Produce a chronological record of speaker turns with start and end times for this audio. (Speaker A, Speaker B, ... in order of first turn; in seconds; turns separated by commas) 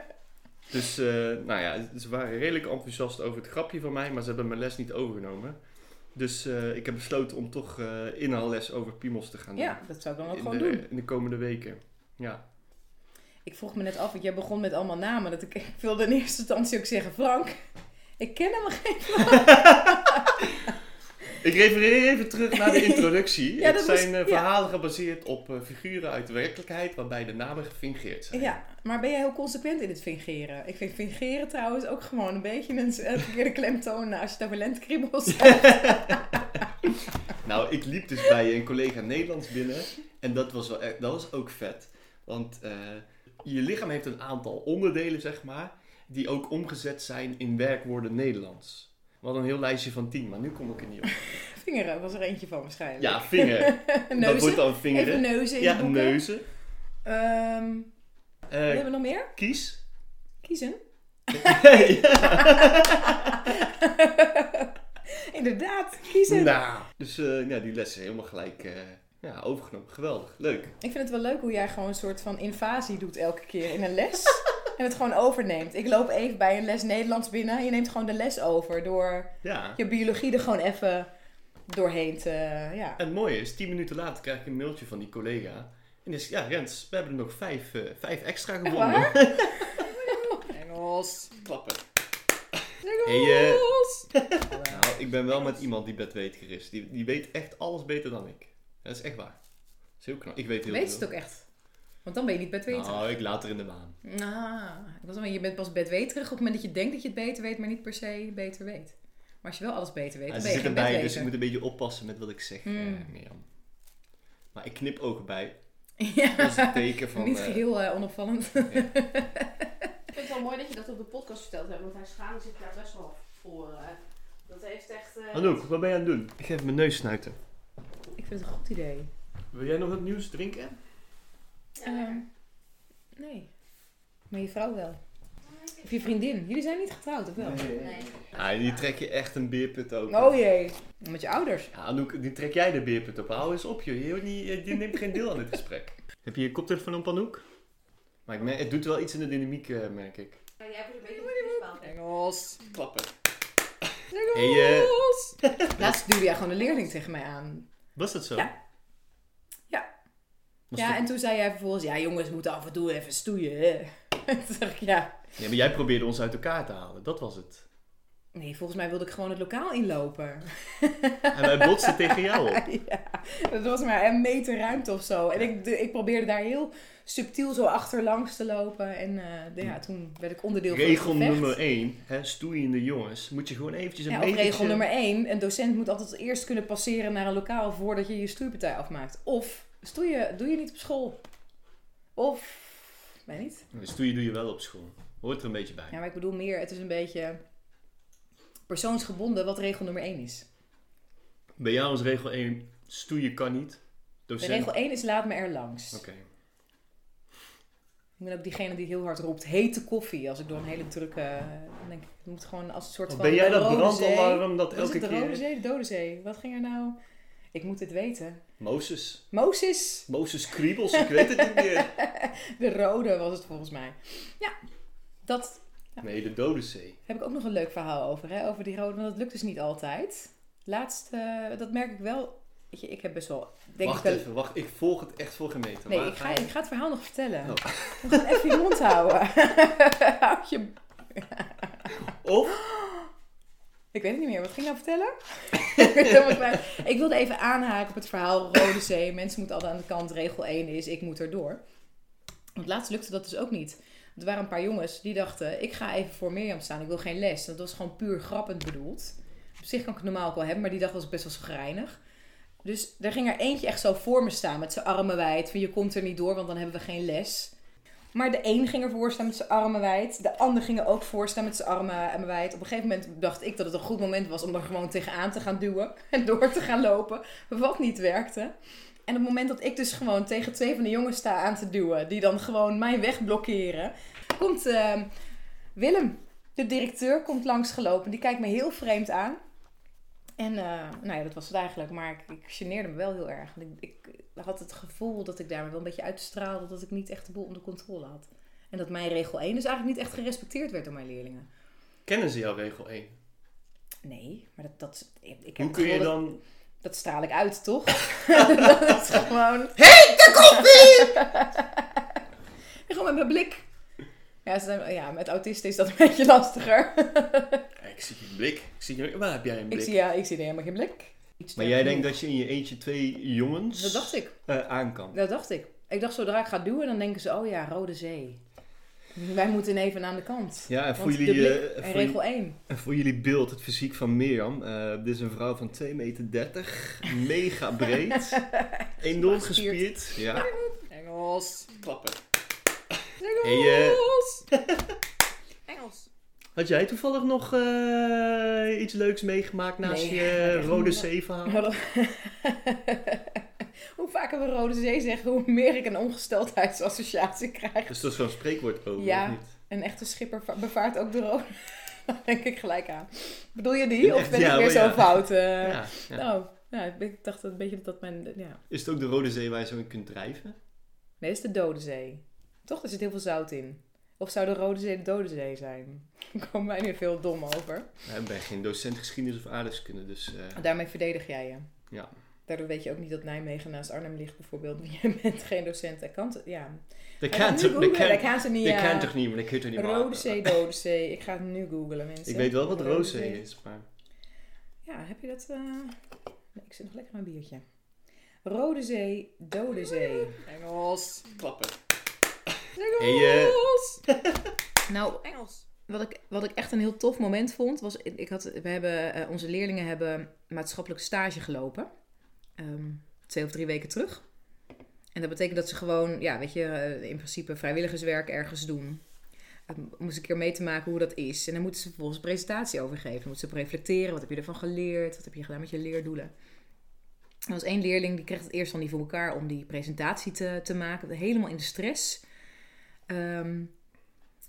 Speaker A: 0.7-5.6, Speaker A: 6.1-12.4, Speaker B: 9.6-10.8, Speaker B: 13.4-17.6, Speaker B: 18.2-20.8, Speaker A: 19.2-20.4, Speaker A: 21.4-28.6, Speaker B: 22.5-24.5, Speaker B: 28.3-36.6, Speaker A: 35.3-36.4, Speaker A: 37.3-51.1, Speaker B: 51.3-56.2, Speaker A: 53.0-56.5, Speaker B: 57.0-57.9, Speaker A: 58.5-59.8, Speaker B: 58.7-59.3, Speaker B: 60.4-66.6, Speaker A: 61.3-63.6, Speaker A: 66.3-70.8, Speaker B: 70.8-81.1, Speaker A: 79.4-79.8, Speaker B: 81.7-83.0, Speaker A: 83.0-89.9, Speaker B: 88.7-90.2, Speaker C: 90.1-91.3, Speaker A: 91.3-91.8, Speaker C: 92.8-94.1, Speaker A: 93.0-99.4, Speaker B: 94.5-94.8, Speaker A: 100.0-101.1, Speaker B: 100.7-101.5, Speaker B: 102.0-103.2, Speaker A: 102.7-104.0, Speaker B: 104.0-111.3, Speaker A: 110.3-113.5, Speaker B: 112.7-113.1, Speaker A: 114.5-115.6, Speaker B: 116.0-119.9, Speaker A: 116.4-117.6, Speaker C: 120.1-125.6, Speaker A: 125.3-127.4, Speaker B: 128.2-129.1, Speaker A: 129.5-130.8, Speaker B: 131.8-132.3, Speaker B: 133.2-133.5, Speaker B: 134.3-135.0, Speaker B: 135.8-137.8, Speaker A: 137.4-140.4, Speaker B: 140.1-141.7, Speaker A: 141.7-147.4, Speaker A: 148.3-150.4, Speaker C: 150.6-152.6, Speaker A: 152.6-153.1, Speaker C: 154.1-155.4, Speaker A: 154.3-156.0, Speaker B: 155.7-157.7, Speaker A: 158.0-158.5, Speaker A: 160.7-161.0, Speaker B: 160.8-165.2, Speaker A: 165.4-167.7, Speaker B: 168.3-181.6, Speaker A: 171.3-172.6, Speaker A: 180.7-184.9, Speaker B: 184.1-191.2, Speaker B: 192.2-193.7, Speaker A: 193.7-196.0, Speaker B: 195.9-197.4, Speaker B: 198.7-200.5, Speaker A: 201.6-204.7, Speaker B: 204.4-206.0, Speaker A: 205.9-206.3, Speaker B: 208.2-217.0, Speaker A: 213.1-215.4, Speaker B: 217.5-218.4, Speaker A: 218.6-219.3, Speaker B: 219.3-220.1, Speaker A: 220.1-221.9, Speaker B: 220.9-224.6, Speaker B: 225.2-225.6, Speaker A: 226.0-227.0, Speaker B: 227.1-234.3, Speaker A: 233.8-236.5, Speaker B: 235.9-242.0, Speaker A: 237.4-238.8, Speaker A: 241.9-242.6, Speaker B: 242.5-243.1, Speaker B: 243.9-251.6, Speaker A: 245.8-246.2, Speaker B: 252.6-262.0, Speaker B: 262.6-267.5, Speaker B: 268.1-278.5, Speaker B: 279.1-285.1, Speaker B: 285.8-289.4, Speaker B: 290.4-301.5, Speaker A: 302.1-303.1, Speaker B: 304.0-306.2, Speaker A: 305.6-306.4, Speaker B: 306.8-312.1, Speaker A: 308.3-308.9, Speaker A: 309.8-311.3, Speaker B: 312.9-313.6, Speaker B: 314.4-317.7, Speaker A: 317.8-320.0, Speaker B: 319.7-322.1, Speaker A: 321.6-325.2, Speaker B: 323.8-324.3, Speaker B: 325.1-328.4, Speaker B: 329.1-332.6, Speaker A: 330.7-338.4, Speaker B: 338.1-340.5, Speaker A: 339.0-340.5, Speaker C: 340.7-341.7, Speaker A: 341.7-342.2, Speaker A: 342.9-345.0, Speaker C: 343.2-344.5, Speaker C: 345.7-346.0, Speaker A: 346.6-351.7, Speaker B: 349.8-358.1, Speaker A: 357.9-359.5, Speaker B: 359.0-368.6, Speaker A: 364.0-366.3, Speaker A: 368.7-370.6, Speaker B: 371.2-377.9, Speaker A: 378.1-380.6, Speaker B: 380.5-381.7, Speaker B: 382.5-389.1, Speaker A: 387.2-390.6, Speaker B: 389.7-393.4, Speaker A: 392.3-393.9, Speaker B: 394.9-396.0, Speaker B: 396.6-397.6, Speaker B: 398.4-400.4, Speaker C: 400.4-401.3, Speaker A: 401.3-401.8, Speaker C: 402.8-404.0, Speaker A: 402.9-404.4, Speaker B: 404.9-411.9, Speaker B: 412.6-414.2, Speaker B: 415.1-419.0, Speaker B: 419.7-426.3, Speaker B: 427.5-432.2, Speaker B: 433.1-433.7